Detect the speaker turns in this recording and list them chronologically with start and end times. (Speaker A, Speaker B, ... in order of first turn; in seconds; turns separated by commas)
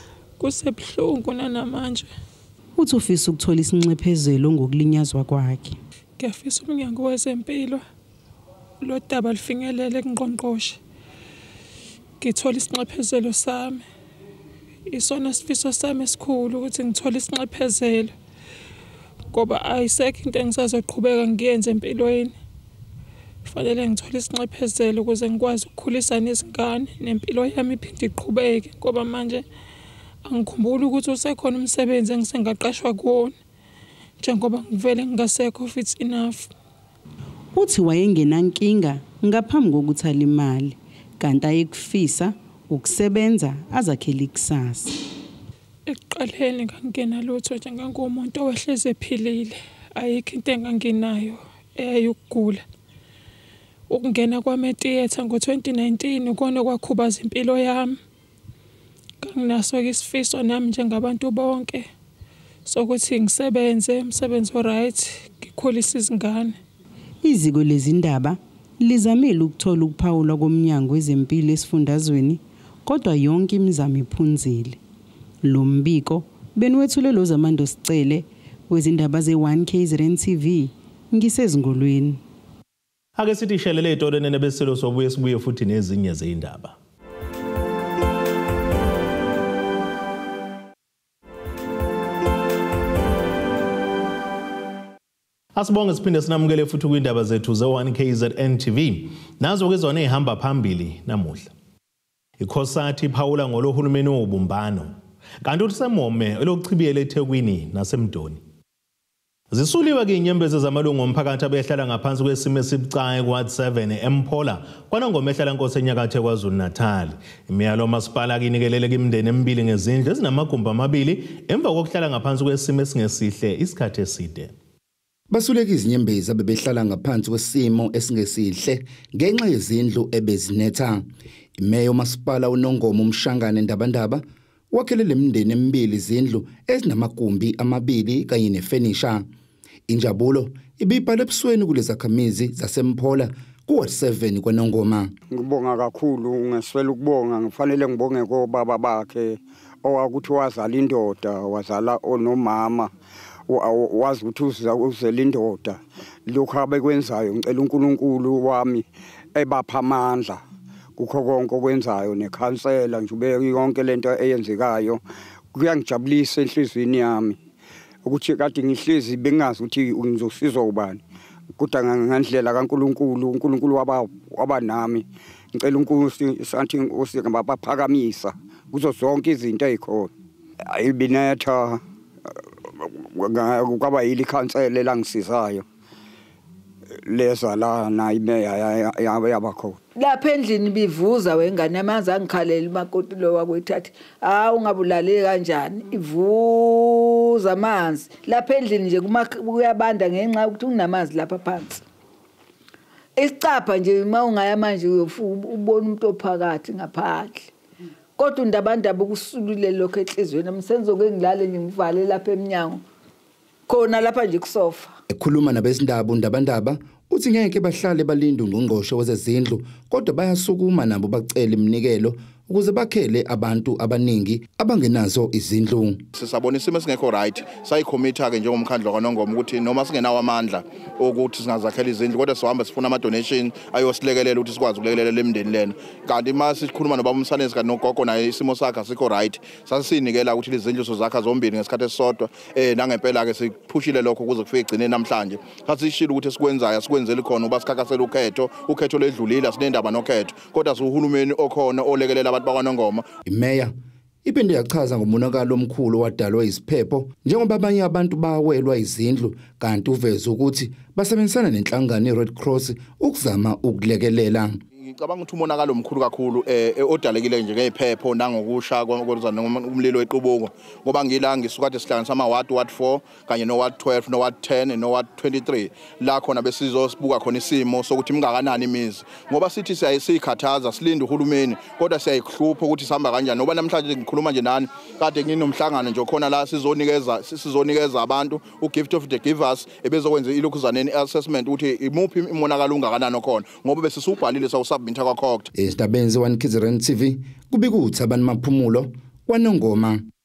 Speaker A: 0.4-2.1, Speaker B: 2.8-5.8, Speaker A: 6.2-7.8, Speaker A: 8.8-10.8, Speaker A: 12.2-13.8, Speaker A: 14.9-18.1, Speaker A: 19.3-22.3, Speaker A: 23.4-29.4, Speaker A: 30.2-33.3, Speaker A: 34.2-36.5, Speaker B: 37.5-45.0, Speaker A: 45.9-52.6, Speaker A: 53.9-58.0, Speaker A: 59.2-61.9, Speaker A: 62.6-66.5, Speaker B: 67.2-74.8, Speaker B: 75.4-82.2, Speaker C: 83.2-86.8, Speaker C: 95.5-101.5, Speaker C: 102.4-108.4, Speaker C: 109.5-124.5, Speaker D: 125.3-131.1, Speaker D: 131.6-139.2, Speaker D: 139.9-145.1, Speaker E: 145.3-152.9, Speaker E: 153.5-158.8, Speaker E: 159.3-160.4, Speaker E: 161.0-165.0, Speaker E: 165.5-167.4, Speaker E: 168.0-171.0, Speaker E: 171.6-175.0, Speaker E: 175.6-180.1, Speaker E: 180.7-181.8, Speaker E: 183.1-185.6, Speaker E: 187.1-189.8, Speaker F: 189.9-201.8, Speaker F: 203.2-207.5, Speaker F: 208.2-212.8, Speaker F: 213.7-214.9, Speaker D: 215.1-226.0, Speaker G: 226.2-253.1, Speaker D: 253.2-253.7, Speaker D: 254.2-264.6, Speaker G: 264.8-295.5, Speaker D: 295.5-300.0